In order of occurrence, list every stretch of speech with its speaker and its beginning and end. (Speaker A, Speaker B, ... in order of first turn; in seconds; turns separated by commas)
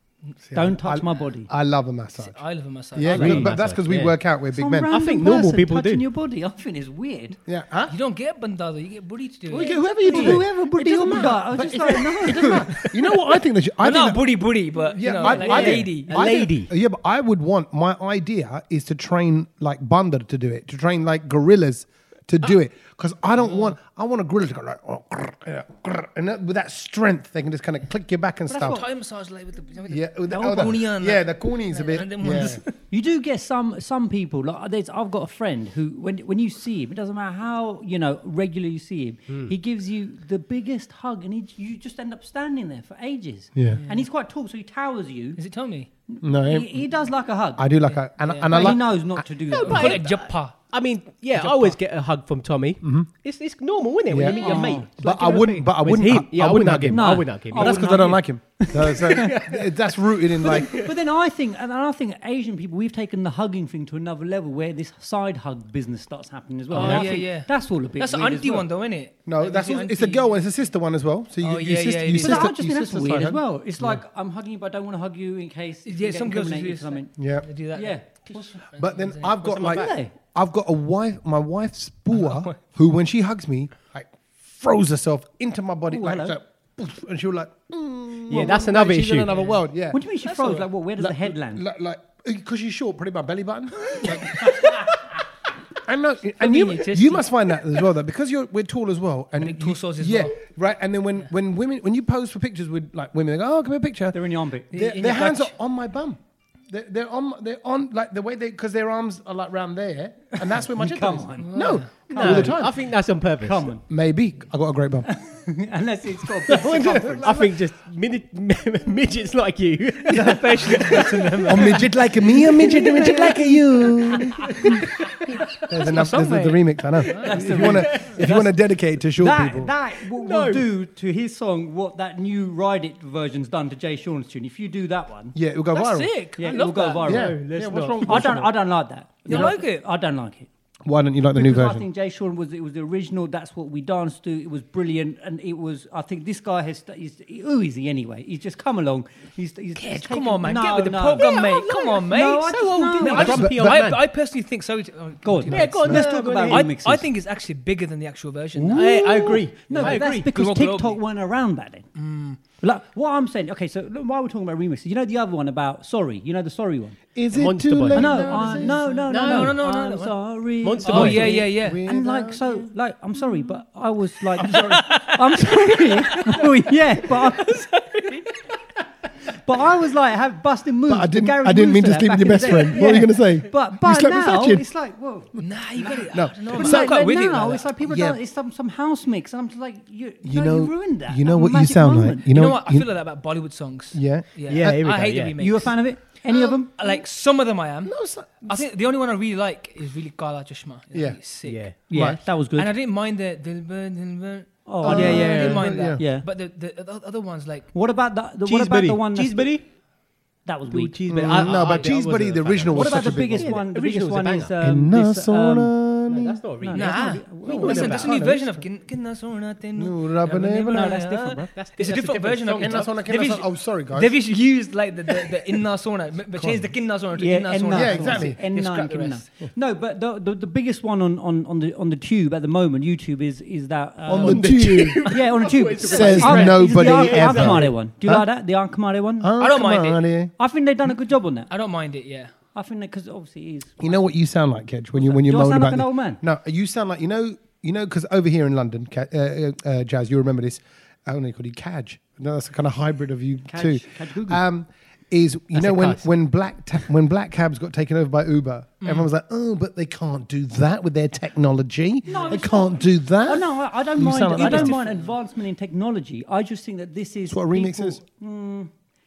Speaker A: 0.4-2.4, Speaker B: 0.5-1.5, Speaker C: 2.2-3.5, Speaker A: 2.9-5.3, Speaker D: 3.0-4.2, Speaker B: 3.1-3.5, Speaker B: 4.5-7.4, Speaker D: 4.9-6.0, Speaker A: 7.5-8.0, Speaker C: 7.9-10.3, Speaker A: 9.5-28.9, Speaker B: 10.0-12.7, Speaker C: 12.4-12.9, Speaker C: 13.8-16.2, Speaker D: 15.2-16.7, Speaker C: 23.4-23.7, Speaker B: 28.5-28.8, Speaker C: 28.5-32.7, Speaker A: 29.9-32.6, Speaker B: 32.9-45.4, Speaker A: 43.5-43.8, Speaker C: 43.7-44.1, Speaker C: 45.4-45.9, Speaker B: 46.1-50.0, Speaker A: 46.2-46.8, Speaker A: 47.6-49.3, Speaker C: 48.0-48.8, Speaker D: 49.5-58.1, Speaker C: 49.6-51.8, Speaker A: 52.8-53.1, Speaker A: 54.1-60.8, Speaker B: 54.4-55.0, Speaker B: 56.9-59.4, Speaker D: 59.3-59.6, Speaker B: 60.4-68.7, Speaker D: 60.4-60.9, Speaker C: 66.7-70.4, Speaker D: 66.8-67.0, Speaker A: 69.3-74.0, Speaker C: 71.4-72.5, Speaker B: 72.2-77.1, Speaker C: 75.9-79.9, Speaker A: 77.2-77.5, Speaker B: 77.7-78.5, Speaker A: 78.8-94.8, Speaker B: 79.5-80.1, Speaker C: 82.1-82.6, Speaker B: 85.9-86.4, Speaker B: 88.3-88.6, Speaker D: 88.3-89.3, Speaker B: 89.9-91.6, Speaker A: 95.8-104.2, Speaker C: 96.4-97.5, Speaker C: 99.4-100.4, Speaker B: 104.1-104.7, Speaker A: 104.7-112.9, Speaker C: 104.7-105.5, Speaker B: 110.7-113.8, Speaker C: 111.4-111.9, Speaker D: 112.1-113.7, Speaker A: 113.9-115.1, Speaker B: 115.1-117.3, Speaker A: 116.5-117.6, Speaker D: 117.2-121.8, Speaker C: 120.1-121.9, Speaker A: 120.1-124.8, Speaker B: 122.6-123.5, Speaker C: 125.6-127.4, Speaker A: 125.7-129.7, Speaker B: 127.2-128.5, Speaker D: 127.5-128.3, Speaker B: 129.1-135.4, Speaker D: 130.1-130.7, Speaker A: 135.3-136.2, Speaker C: 135.7-137.1, Speaker B: 136.4-137.4, Speaker D: 137.1-138.4, Speaker A: 137.1-138.6, Speaker B: 138.0-140.5, Speaker C: 139.3-139.8, Speaker A: 140.8-141.9, Speaker B: 141.3-151.3, Speaker C: 149.8-161.0, Speaker D: 151.1-154.0, Speaker B: 152.1-153.4, Speaker A: 153.1-153.8, Speaker B: 155.2-157.1, Speaker D: 155.5-156.8, Speaker B: 158.6-161.9, Speaker D: 158.7-160.3, Speaker C: 161.9-162.4, Speaker B: 162.5-167.0, Speaker A: 167.2-169.0, Speaker D: 167.3-169.6, Speaker B: 167.9-177.6, Speaker C: 168.9-170.3, Speaker D: 170.6-171.4, Speaker C: 170.8-171.8, Speaker A: 171.2-172.7, Speaker C: 174.5-176.4, Speaker C: 177.4-178.2, Speaker B: 179.4-192.3, Speaker A: 180.9-184.7, Speaker C: 185.4-187.7, Speaker A: 186.1-187.1, Speaker A: 187.8-188.2, Speaker A: 190.2-193.2, Speaker C: 192.3-201.7, Speaker A: 193.9-194.9, Speaker D: 194.5-195.3, Speaker B: 195.4-196.7, Speaker A: 196.3-196.9, Speaker A: 197.8-198.7, Speaker A: 200.9-202.2, Speaker D: 201.4-201.8, Speaker B: 201.9-202.7, Speaker C: 202.5-207.7, Speaker B: 204.7-206.3, Speaker A: 204.8-206.1, Speaker B: 207.7-209.6, Speaker D: 208.4-209.7, Speaker B: 210.4-211.4, Speaker D: 210.7-214.6, Speaker A: 211.1-213.6, Speaker C: 211.4-211.9, Speaker B: 212.7-215.8, Speaker A: 214.6-216.4, Speaker D: 216.1-218.1, Speaker B: 216.6-217.9, Speaker C: 216.8-229.3, Speaker A: 217.5-218.7, Speaker A: 219.8-220.9, Speaker B: 220.7-221.5, Speaker D: 221.5-222.9, Speaker A: 222.6-224.2, Speaker A: 226.3-226.8, Speaker B: 227.2-239.3, Speaker A: 227.7-228.4, Speaker A: 234.1-235.1, Speaker D: 234.1-237.8, Speaker A: 235.8-238.3, Speaker A: 239.2-240.3, Speaker C: 239.4-240.1, Speaker B: 240.4-241.5, Speaker C: 241.5-242.3, Speaker B: 242.6-244.0, Speaker A: 243.8-264.8, Speaker B: 245.0-246.2, Speaker B: 253.5-254.4, Speaker D: 255.6-256.1, Speaker C: 258.8-259.1, Speaker B: 262.1-268.7, Speaker C: 262.1-262.4, Speaker C: 264.4-265.1, Speaker A: 267.3-268.0